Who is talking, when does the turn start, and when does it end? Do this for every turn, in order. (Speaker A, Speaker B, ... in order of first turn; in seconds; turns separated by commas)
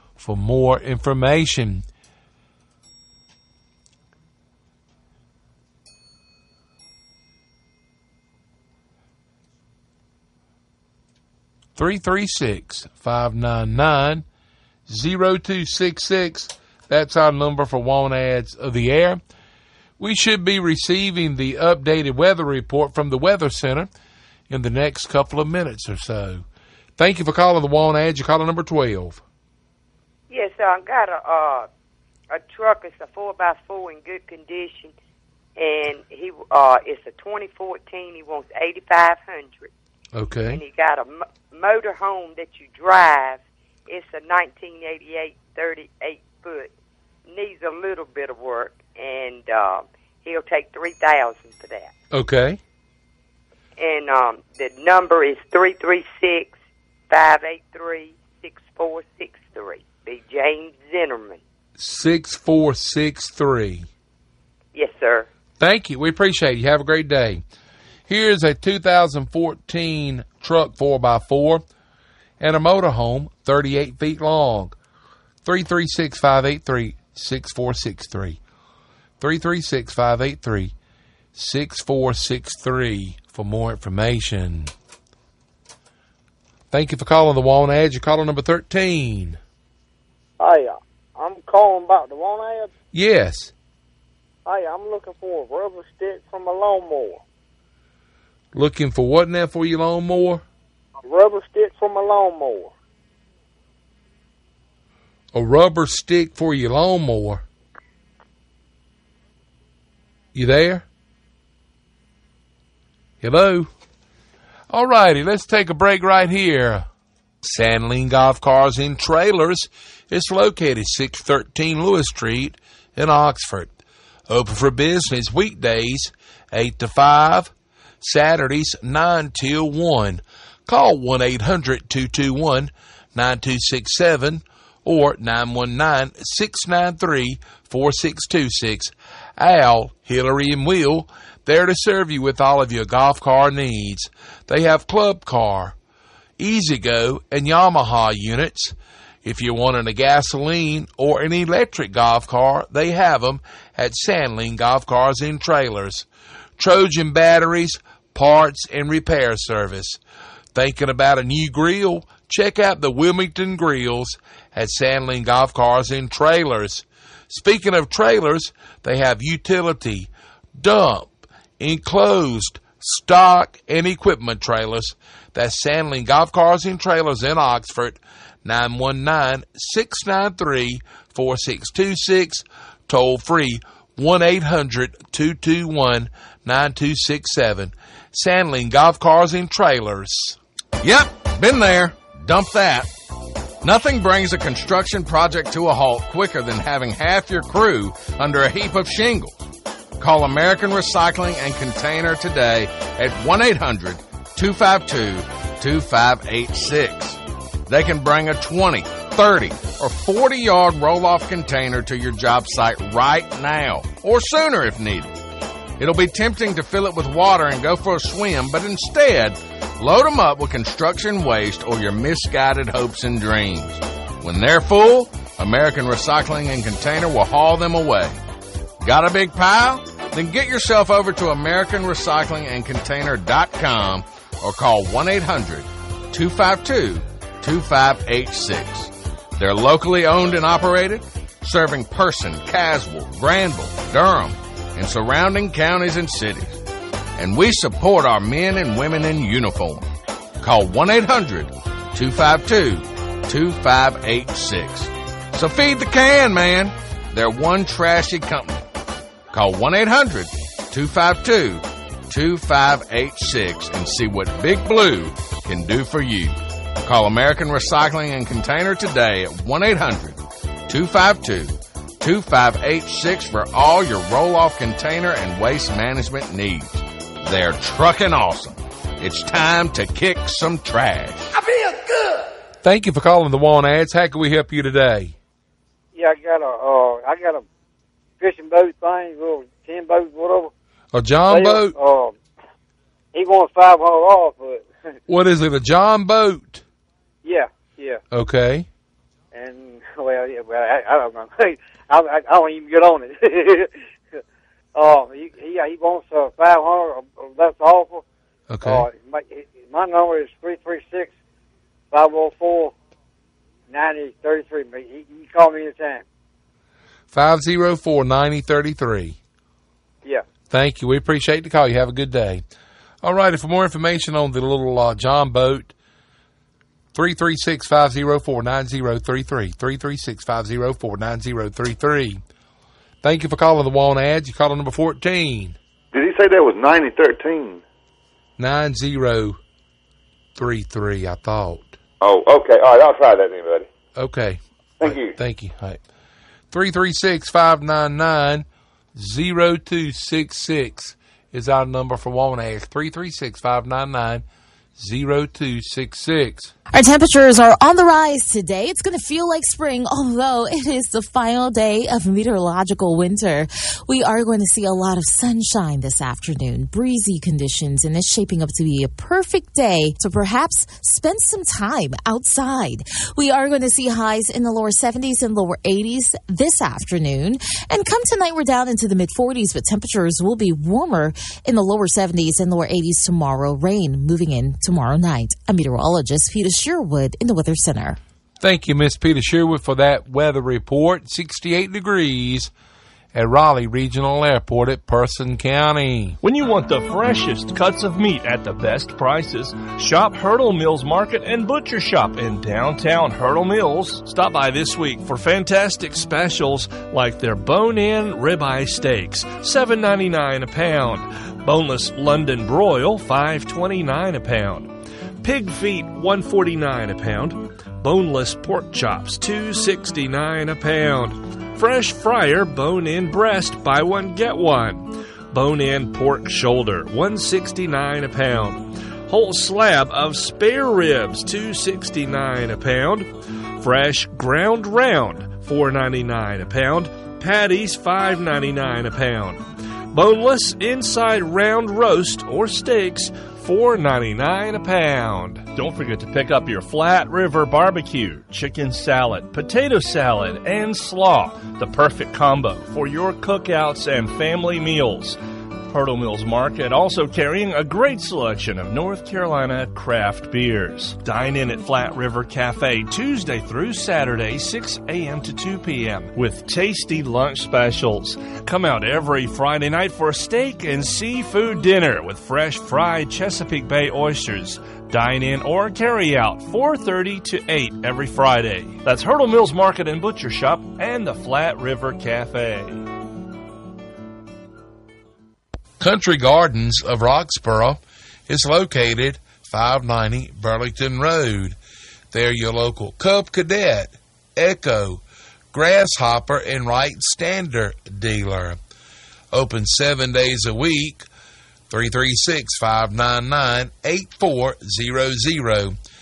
Speaker A: 0.2-1.8, Speaker A: 11.8-14.2, Speaker A: 14.9-19.2, Speaker A: 20.0-23.9, Speaker A: 24.5-26.4, Speaker A: 27.0-29.2, Speaker B: 30.3-31.7, Speaker B: 32.3-34.9, Speaker B: 35.6-39.7, Speaker A: 40.1-40.6, Speaker B: 40.5-46.7, Speaker B: 47.3-51.9, Speaker A: 52.1-52.6, Speaker B: 53.8-56.6, Speaker B: 57.1-61.4, Speaker A: 61.8-63.9, Speaker B: 64.7-65.3, Speaker A: 65.6-67.4, Speaker A: 68.1-71.6, Speaker A: 72.4-74.8, Speaker A: 75.4-78.4, Speaker A: 79.2-80.7, Speaker A: 81.3-84.7, Speaker A: 86.7-89.4, Speaker C: 90.4-92.7, Speaker A: 92.9-93.5, Speaker C: 94.5-97.2, Speaker A: 98.5-100.4, Speaker C: 101.0-102.7, Speaker A: 105.3-107.5, Speaker A: 110.3-110.8, Speaker A: 113.2-113.7, Speaker A: 114.7-116.9, Speaker A: 117.4-123.7, Speaker A: 124.3-145.8, Speaker A: 146.4-156.1, Speaker A: 156.6-160.0, Speaker A: 160.5-190.4, Speaker D: 190.8-192.9, Speaker D: 193.6-199.4, Speaker D: 200.0-215.1, Speaker D: 215.8-228.2, Speaker D: 228.8-246.6, Speaker D: 247.2-249.9, Speaker D: 250.4-258.6, Speaker D: 259.3-281.3, Speaker A: 282.6-285.2, Speaker E: 285.9-287.4, Speaker E: 288.2-290.5, Speaker A: 290.9-291.8, Speaker E: 291.3-292.1, Speaker E: 293.1-294.7, Speaker A: 295.1-296.6, Speaker E: 297.2-298.0, Speaker A: 298.1-298.7, Speaker E: 299.3-303.7, Speaker E: 304.8-308.0, Speaker A: 308.5-308.9, Speaker E: 308.6-311.1, Speaker E: 311.9-312.7, Speaker E: 313.7-316.0, Speaker A: 317.1-319.2, Speaker A: 320.5-322.4, Speaker A: 323.0-325.7, Speaker A: 326.9-332.2, Speaker A: 333.0-335.6, Speaker F: 336.0-337.6, Speaker A: 338.4-339.4, Speaker A: 340.4-341.8, Speaker F: 342.1-343.7, Speaker A: 344.0-345.8, Speaker A: 346.5-354.2, Speaker A: 354.8-356.5, Speaker G: 356.7-388.0, Speaker A: 388.4-392.5, Speaker A: 393.1-396.2, Speaker H: 396.2-455.2, Speaker H: 455.7-482.8, Speaker A: 485.8-491.6, Speaker A: 492.1-495.0, Speaker A: 495.5-498.6, Speaker A: 499.3-501.1, Speaker A: 501.7-505.8